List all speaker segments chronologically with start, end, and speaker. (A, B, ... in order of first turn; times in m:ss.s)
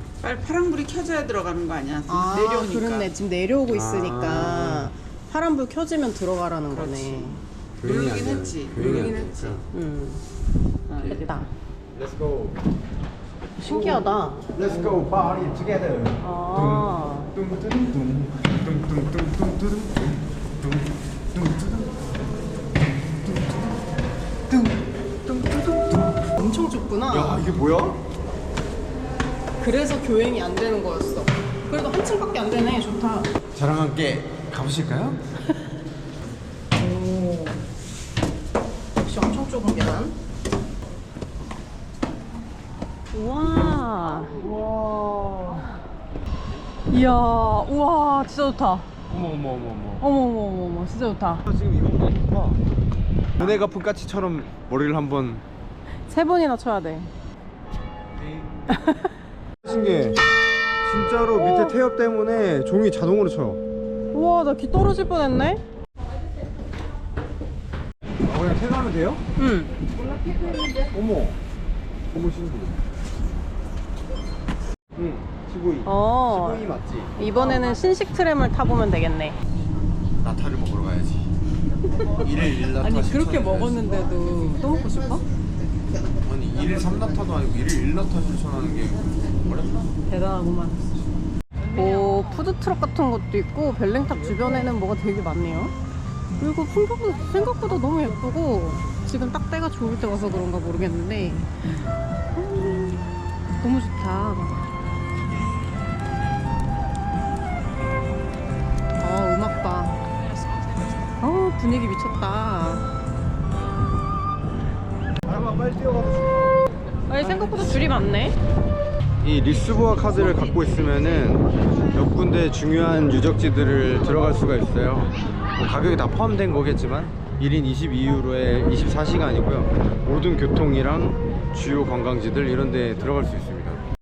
0:00.2-0:03.1 A
0:02.1-0:07.4 B
0:03.7-0:04.9 C
0:06.9-0:09.6 A
0:07.8-0:09.6 C
0:08.8-0:10.2 B
0:10.9-0:11.5 B
0:11.9-0:12.6 C
0:13.6-0:15.0 B
0:13.7-0:22.0 C
0:16.2-0:17.3 B
0:23.3-0:23.8 B
0:24.5-0:26.2 C
0:26.4-0:27.4 B
0:27.1-0:28.0 C
0:29.6-0:33.3 B
0:33.6-0:35.2 C
0:36.8-0:37.6 B
0:39.0-0:40.2 B
0:43.1-0:44.4 B
0:44.4-0:45.7 C
0:46.9-0:48.9 B
0:49.1-0:50.0 C
0:50.0-0:51.4 B
0:51.5-0:52.6 C
0:53.4-0:55.4 C
0:56.1-0:57.1 B
0:58.7-0:59.1 B
0:59.6-1:00.2 C
1:00.8-1:03.6 C
1:01.3-1:01.8 B
1:04.1-1:05.6 B
1:08.2-1:09.2 C
1:09.4-1:09.7 B
1:10.9-1:11.4 C
1:12.1-1:12.9 C
1:15.0-1:17.7 C
1:15.8-1:19.4 B
1:20.2-1:21.3 C
1:22.2-1:23.8 C
1:22.8-1:25.2 B
1:26.2-1:29.9 C
1:30.1-1:30.9 B
1:31.7-1:35.7 B
1:36.4-1:41.5 B
1:42.3-1:44.6 B
1:49.0-1:50.0 B
1:51.2-1:52.8 B
1:55.2-1:56.6 C
1:57.1-1:58.4 B
1:57.2-1:57.8 C
1:59.2-2:13.8 C